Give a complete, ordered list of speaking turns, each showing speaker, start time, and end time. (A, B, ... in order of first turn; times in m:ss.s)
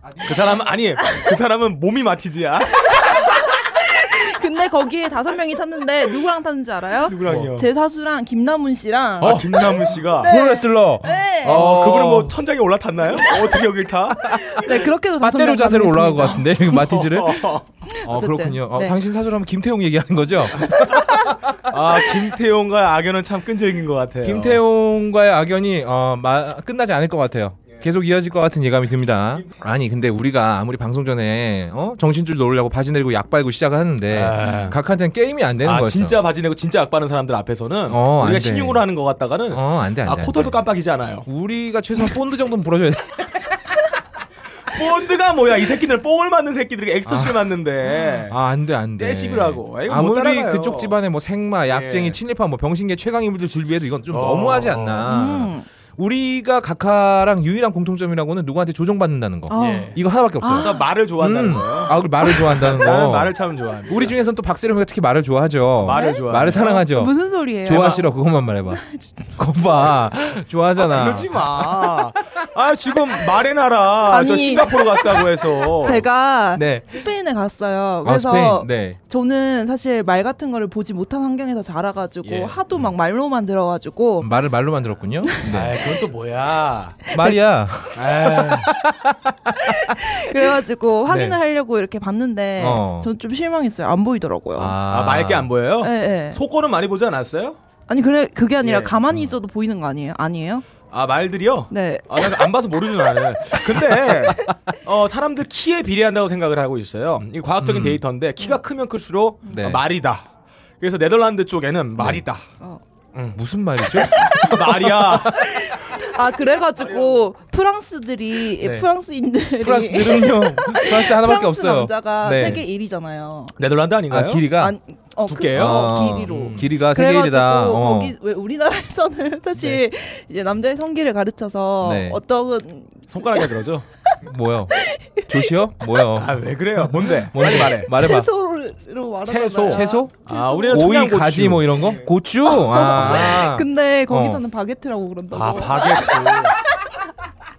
0:00.2-0:03.1 A
0:02.9-0:11.8 B
0:07.1-0:07.7 A
0:07.2-0:07.5 C
0:09.2-0:10.3 A
0:10.2-0:12.4 C
0:11.4-0:14.4 A
0:14.3-0:17.0 B
0:14.3-0:22.2 C
0:16.8-0:17.6 A
0:17.9-0:19.0 B
0:21.7-0:24.6 A
0:24.2-0:36.2 C
0:34.1-0:34.8 A
0:35.6-0:41.3 A
0:37.9-0:38.8 C
0:39.5-0:40.6 C
0:41.3-0:43.6 C
0:44.7-0:48.4 A
0:47.1-0:47.5 C
0:48.3-1:03.4 C
0:49.0-0:51.0 A
0:51.7-0:52.2 A
0:54.1-0:55.1 A
0:55.0-0:55.7 B
0:59.5-1:00.9 B
0:59.6-1:00.0 A
1:00.5-1:04.2 A
1:03.9-1:11.8 C
1:05.8-1:06.8 A
1:05.9-1:08.1 B
1:07.7-1:08.0 A
1:10.8-1:16.0 A
1:14.1-1:24.3 B
1:16.6-1:16.9 C
1:18.0-1:19.0 C
1:22.2-1:22.6 A
1:24.2-1:25.8 C
1:25.5-1:27.0 A
1:27.1-1:30.0 C
1:27.9-1:28.7 A
1:29.6-1:34.8 B
1:31.1-1:31.4 C
1:32.6-1:33.1 C
1:34.6-1:35.5 C
1:34.9-1:37.6 A
1:35.8-1:36.4 B
1:37.9-1:40.7 B
1:38.6-1:39.0 A
1:40.9-1:50.3 A
1:41.7-1:42.4 B
1:47.6-1:48.0 C
1:49.5-1:49.8 C
1:50.8-1:52.5 A
1:52.0-1:52.2 C
1:53.1-1:53.4 A
1:53.3-1:55.6 C
1:53.9-1:55.6 A
1:54.2-1:54.6 B
1:55.3-2:03.6 B
1:56.8-1:57.2 A
1:58.6-1:58.9 A
1:59.6-2:02.6 C
2:02.3-2:02.6 A
2:03.6-2:04.5 A
2:04.1-2:04.8 C
2:04.6-2:13.5 B
2:05.3-2:06.7 A
2:05.5-2:08.1 C
2:11.8-2:12.2 C
2:13.1-2:13.9 A
2:14.2-2:18.3 C
2:14.8-2:15.5 B
2:16.2-2:17.9 A
2:17.9-2:21.0 B
2:19.3-2:22.0 A
2:19.6-2:20.1 C
2:20.7-2:24.4 C
2:22.5-2:27.0 B
2:22.8-2:23.4 A
2:25.3-2:26.6 A